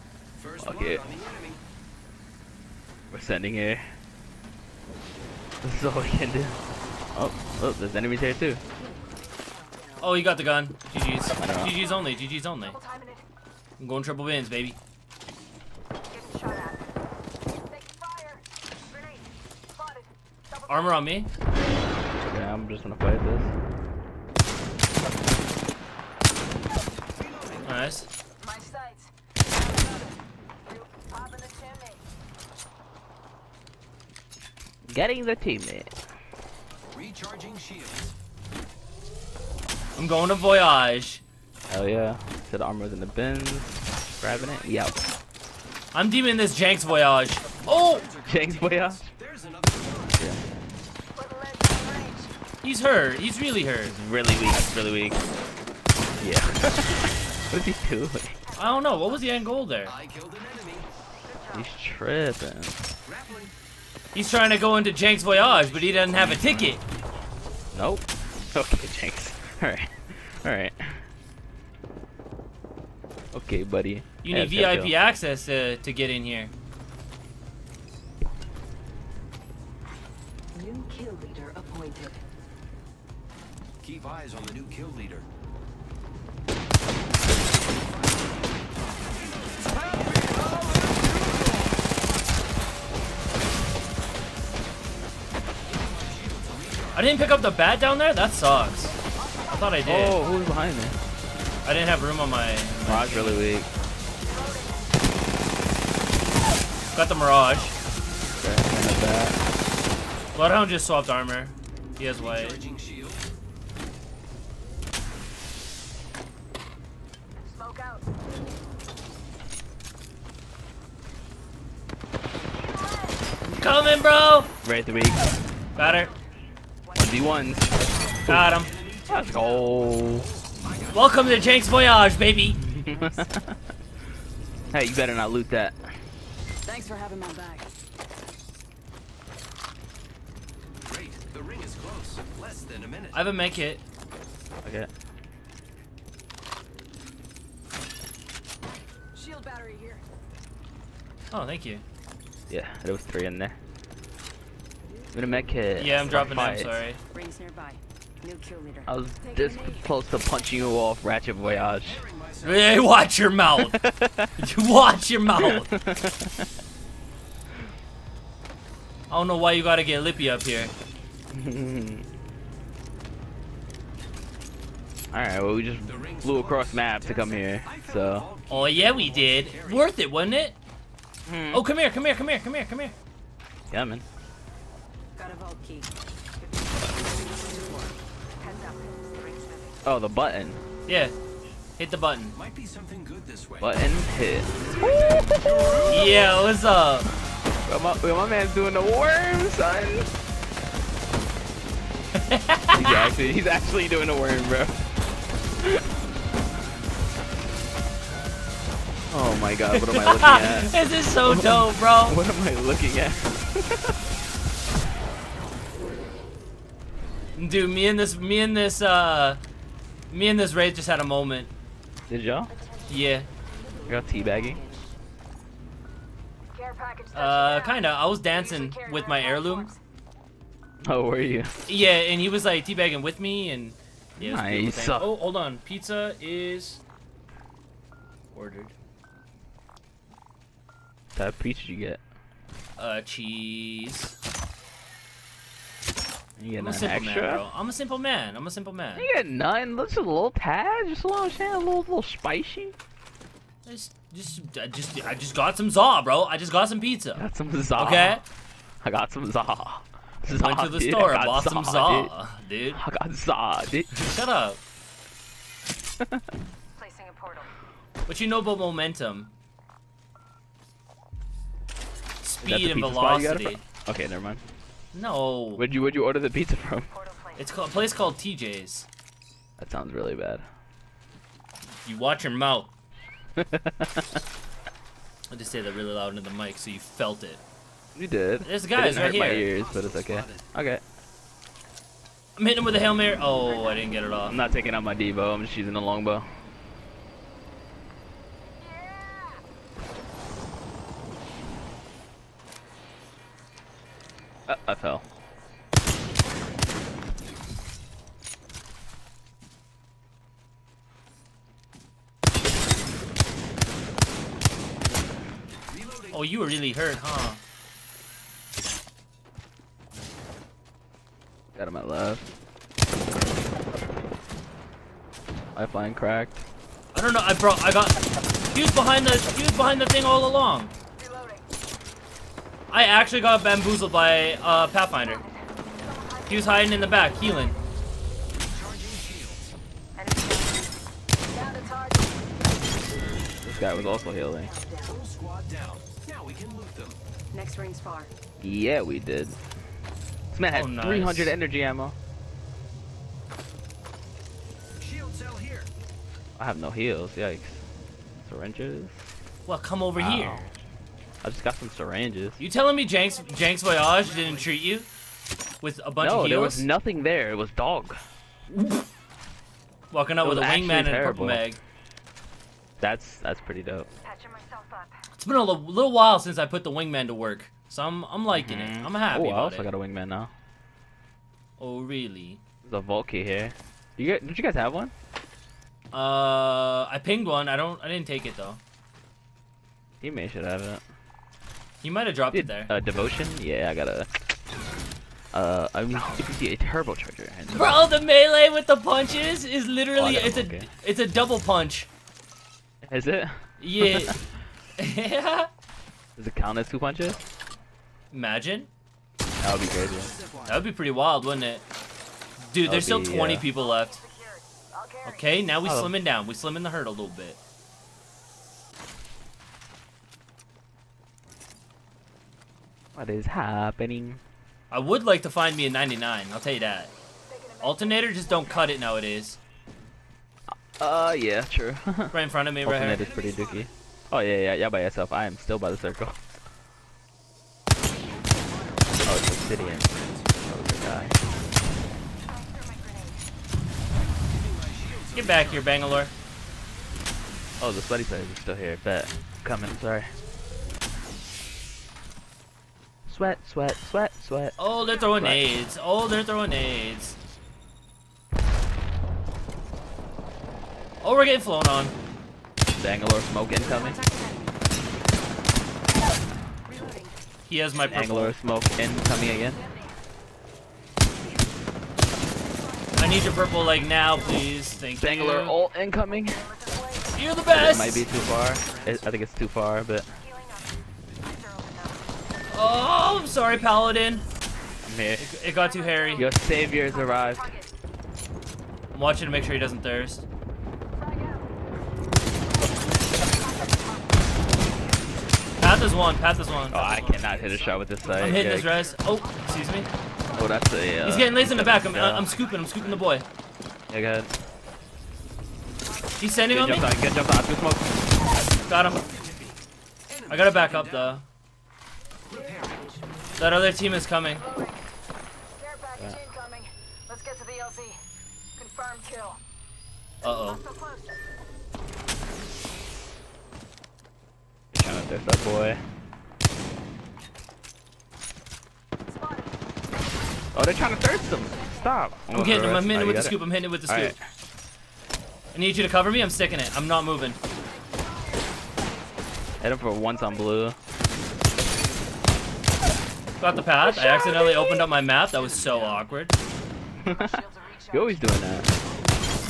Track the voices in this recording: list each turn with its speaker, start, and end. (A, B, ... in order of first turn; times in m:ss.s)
0:00.4-0:01.6 A
0:00.6-0:01.0 B
0:03.1-0:03.9 B
0:05.6-0:06.6 B
0:07.1-0:08.6 B
0:10.0-0:12.8 C
0:11.4-0:11.8 B
0:12.7-0:13.2 D
0:13.8-0:14.8 C
0:16.1-0:16.8 D
0:17.5-0:21.0 D
0:20.7-0:21.3 C
0:22.2-0:23.5 B
0:27.2-0:27.6 A
0:27.6-0:28.1 C
0:28.4-0:30.2 D
0:30.7-0:32.0 D
0:34.9-0:35.9 B
0:36.9-0:38.1 A
0:40.0-0:41.2 C
0:41.7-0:45.0 B
0:44.3-0:44.8 A
0:45.9-0:48.1 C
0:47.6-0:50.2 A
0:48.2-0:49.1 B
0:51.2-0:52.3 D
0:52.6-0:54.0 C
0:53.8-0:55.2 B
0:56.2-0:58.4 B
0:58.5-0:59.2 D
0:58.6-1:00.0 C
0:59.8-1:00.9 A
1:01.2-1:01.7 D
1:01.5-1:02.8 B
1:03.1-1:03.5 A
1:04.1-1:06.8 C
1:05.6-1:06.2 A
1:06.2-1:06.7 B
1:07.7-1:11.0 B
1:13.3-1:14.9 B
1:14.2-1:16.5 C
1:20.5-1:22.2 D
1:23.8-1:25.3 A
1:29.3-1:31.1 A
1:35.7-1:37.0 A
1:36.9-1:40.2 C
1:39.2-1:39.7 D
1:39.8-1:41.0 B
1:40.2-1:40.5 D
1:41.6-1:43.4 C
1:42.9-1:43.7 B
1:44.3-1:44.7 D
1:46.9-1:47.8 C
1:48.4-1:49.4 B
1:50.3-1:52.6 C
1:52.2-1:53.2 A
1:57.4-1:58.1 D
2:02.6-2:03.4 D
2:03.5-2:04.5 C
2:04.6-2:05.2 B
2:05.8-2:06.1 C
2:05.8-2:06.2 D
2:06.9-2:07.3 D
2:07.0-2:08.6 B
2:08.2-2:08.7 C
2:08.4-2:11.1 A
2:09.1-2:10.3 B
2:10.9-2:12.6 C
2:12.6-2:13.6 B
2:12.9-2:13.3 D
2:14.7-2:15.8 B
2:16.6-2:17.7 D
2:20.9-2:23.3 A
2:23.1-2:23.8 C
2:24.6-2:24.9 B
2:29.1-2:30.0 D
2:31.3-2:31.8 C
2:32.5-2:33.6 B
2:35.1-2:36.8 B
2:35.8-2:37.0 C
2:37.1-2:39.9 D
2:38.8-2:42.0 B
2:41.4-2:42.8 A
2:42.4-2:43.8 C
2:43.6-2:44.3 B
2:44.4-2:45.7 C
2:45.4-2:46.5 B
2:49.1-2:50.7 C
2:51.3-2:52.1 B
2:55.1-2:58.3 B
2:55.9-2:59.9 A
2:58.5-3:00.6 C
3:01.3-3:01.6 B
3:01.5-3:03.0 C
3:03.7-3:04.0 B
3:05.2-3:07.4 D
3:07.2-3:08.0 A
3:08.4-3:09.8 D
3:09.8-3:10.6 B
3:10.9-3:11.2 C
3:11.8-3:12.4 C
3:12.4-3:13.8 A
3:13.6-3:16.2 B
3:14.6-3:16.3 A
3:15.9-3:17.1 C
3:17.7-3:20.1 B
3:22.2-3:23.1 C
3:22.7-3:24.8 B
3:29.1-3:34.0 B
3:29.7-3:32.2 C
3:37.4-3:39.4 C
3:40.1-3:41.5 C
3:42.1-3:42.5 B
3:42.9-3:43.3 C
3:43.9-3:44.9 D
3:43.9-3:44.6 B
3:46.5-3:49.8 D
3:47.1-3:49.7 C
3:50.8-3:51.5 B
3:51.7-3:56.8 C
3:54.2-3:55.1 B
3:58.3-3:58.8 C
4:01.1-4:02.0 B
4:02.8-4:04.2 C
4:06.4-4:07.4 B
4:06.6-4:09.1 C
4:09.0-4:12.7 B
4:13.6-4:17.2 C
4:17.2-4:18.2 B
4:17.8-4:18.2 C
4:18.8-4:22.1 B
4:20.3-4:22.8 C
4:22.8-4:23.9 B
4:23.9-4:24.6 C
4:26.8-4:27.5 D
4:28.1-4:29.3 C
4:32.2-4:33.6 C
4:32.4-4:34.4 B
4:34.9-4:35.6 C
4:35.6-4:36.9 B
4:36.9-4:37.4 D
4:37.4-4:38.9 C
4:39.6-4:40.4 B
4:41.8-4:42.7 C
4:43.4-4:44.2 B
4:45.3-4:47.4 C
4:48.0-4:50.8 B
4:48.4-4:49.5 C
4:49.3-4:50.5 A
4:52.4-4:54.4 C
4:54.3-4:56.3 B
4:58.6-4:59.4 D
5:04.5-5:05.0 B
5:15.7-5:16.2 A
5:16.1-5:17.4 C
5:21.6-5:22.3 B
5:25.6-5:26.4 B
5:26.9-5:30.7 C
5:31.0-5:31.5 D
5:32.7-5:35.2 C
5:34.9-5:37.7 D
5:36.3-5:37.6 C
5:38.3-5:39.5 A
5:40.0-5:40.7 D
5:41.3-5:42.4 D
5:43.4-5:44.5 B
5:44.4-5:45.0 D
5:44.8-5:47.0 A
5:47.3-5:48.1 D
5:48.4-5:49.4 B
5:50.3-5:52.0 B
5:50.5-5:51.4 C
5:54.8-5:55.7 A
5:56.4-5:57.6 B
5:58.2-5:59.0 B
5:59.5-6:00.5 C
6:00.0-6:00.5 B
6:01.2-6:02.4 B
6:02.4-6:04.9 C
6:03.3-6:04.0 D
6:05.6-6:06.6 C
6:06.0-6:08.0 B
6:08.5-6:08.9 C
6:09.9-6:11.6 C
6:10.2-6:11.5 B
6:12.8-6:13.9 B
6:14.0-6:15.0 D
6:15.2-6:19.7 C
6:18.3-6:20.3 B
6:21.6-6:22.4 C
6:22.6-6:24.9 B
6:25.9-6:28.6 C
6:30.0-6:30.8 B
6:31.8-6:32.7 C
6:32.3-6:34.1 B
6:35.3-6:37.9 B
6:37.5-6:41.9 C
6:40.0-6:40.7 B
6:42.8-6:44.2 B
6:43.6-6:44.2 C
6:44.8-6:45.5 C
6:46.2-6:47.2 B
6:48.1-6:48.7 C
6:49.4-6:50.1 B
6:49.8-6:50.6 A
6:50.4-6:51.6 C
6:52.4-6:54.0 C
6:52.6-6:53.5 B
6:53.6-6:55.2 D
6:55.0-6:57.4 C
6:55.6-6:55.9 B
7:03.0-7:04.2 B
7:04.7-7:06.9 C
7:07.3-7:08.6 D
7:07.6-7:09.4 C
7:10.8-7:16.2 B
7:12.1-7:13.0 C
7:12.9-7:13.7 A
7:18.1-7:19.2 D
7:19.0-7:19.9 B
7:19.2-7:20.3 A
7:20.4-7:21.2 B
7:20.7-7:23.3 D
7:24.1-7:25.7 A
7:25.2-7:26.1 C
7:27.6-7:30.1 B
7:33.1-7:34.6 B
7:34.6-7:37.2 C
7:35.1-7:35.5 B
7:41.0-7:42.0 C
7:42.8-7:44.0 B
7:43.5-7:45.1 D
7:46.7-7:47.2 D
7:47.5-7:48.3 C
7:47.8-7:49.6 B
7:49.1-7:50.0 D
7:52.5-7:54.5 D
7:53.0-7:55.5 C
7:55.0-7:56.4 B
7:56.1-7:57.7 D
7:57.2-7:58.1 C
7:57.5-8:00.1 B
7:58.6-7:59.1 A
8:00.2-8:02.2 D
8:02.5-8:04.2 C
8:04.8-8:05.3 B
8:05.2-8:06.3 C
8:05.6-8:07.7 D
8:06.2-8:07.5 B
8:08.9-8:10.2 C
8:11.0-8:11.5 D
8:12.4-8:14.5 D
8:15.6-8:16.9 C
8:16.7-8:18.8 A
8:16.7-8:18.7 B
8:18.2-8:19.9 C
8:20.1-8:20.6 D
8:20.3-8:22.3 B
8:21.0-8:23.3 C
8:22.6-8:22.9 A
8:23.9-8:24.3 B
8:25.9-8:26.5 D
8:26.2-8:26.9 C
8:26.5-8:27.9 B
8:28.7-8:29.1 C
8:29.0-8:29.6 A
8:30.1-8:31.2 A
8:30.3-8:31.2 C
8:32.3-8:33.3 D
8:32.3-8:32.8 A
8:33.4-8:34.5 C
8:34.4-8:34.8 D
8:35.6-8:38.0 D
8:38.6-8:39.4 D
8:40.2-8:40.6 C
8:40.2-8:41.2 D
8:44.7-8:45.8 B
8:49.1-8:51.9 D
8:50.6-8:54.2 B
8:52.3-8:54.2 C
8:55.5-8:57.4 C
8:57.5-8:59.3 D
8:59.6-9:00.8 B
9:03.4-9:06.3 C
9:05.3-9:06.1 A
9:07.0-9:08.7 B
9:07.1-9:08.4 D
9:08.8-9:09.2 A